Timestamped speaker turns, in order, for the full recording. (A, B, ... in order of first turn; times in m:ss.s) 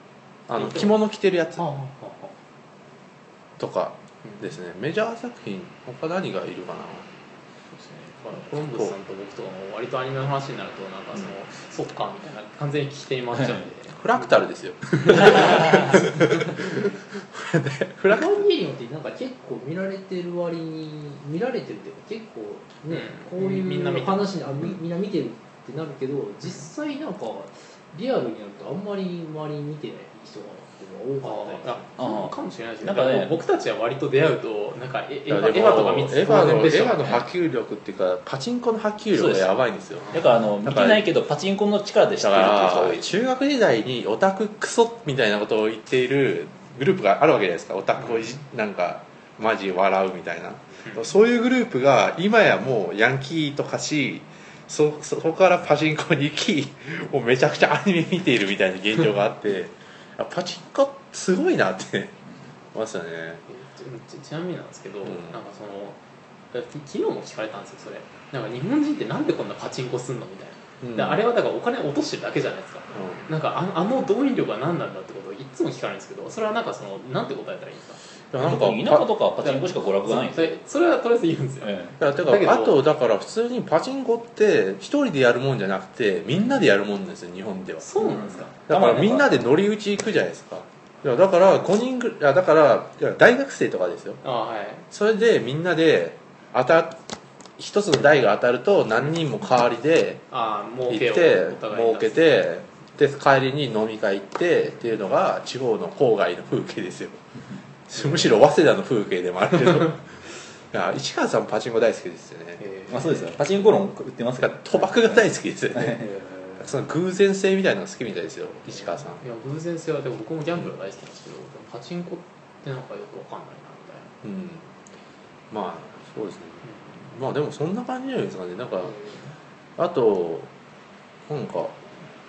0:00.5-0:01.7 A
0:00.6-0:00.9 B
0:01.6-0:02.3 B
0:03.6-0:07.1 A
0:04.2-0:04.5 B
0:07.7-0:14.4 B
0:08.6-0:09.0 A
0:14.0-0:18.5 A
0:14.9-0:16.6 B
0:18.1-0:31.9 C
0:22.9-0:24.4 B
0:31.2-0:37.2 B
0:32.0-0:33.4 D
0:35.3-0:41.0 A
0:39.1-0:39.5 D
0:40.0-0:40.3 B
0:40.1-0:43.1 D
0:42.2-1:02.2 A
1:02.7-1:03.4 A
1:03.5-1:06.0 B
1:05.0-1:05.4 A
1:06.5-1:18.0 B
1:10.8-1:11.2 A
1:12.9-1:13.3 A
1:18.3-1:19.1 A
1:18.4-1:20.6 D
1:19.4-1:22.8 B
1:21.6-1:22.0 D
1:22.0-1:27.9 A
1:26.3-1:26.6 B
1:27.8-1:28.5 B
1:28.0-1:29.5 D
1:28.7-1:34.2 A
1:34.2-1:34.9 B
1:34.9-1:37.0 A
1:37.6-1:40.2 A
1:40.3-1:42.4 B
1:40.9-1:47.2 A
1:47.9-1:52.6 A
1:48.0-1:48.2 B
1:52.6-1:53.3 B
1:52.9-1:54.6 D
1:54.4-1:56.0 A
1:55.7-1:56.1 D
1:56.0-1:56.6 B
1:56.6-1:59.2 A
1:58.8-2:04.1 B
2:04.2-2:04.7 A
2:05.5-2:09.0 A
2:06.6-2:06.9 B
2:08.8-2:09.4 B
2:09.8-2:10.5 A
2:11.3-2:11.8 A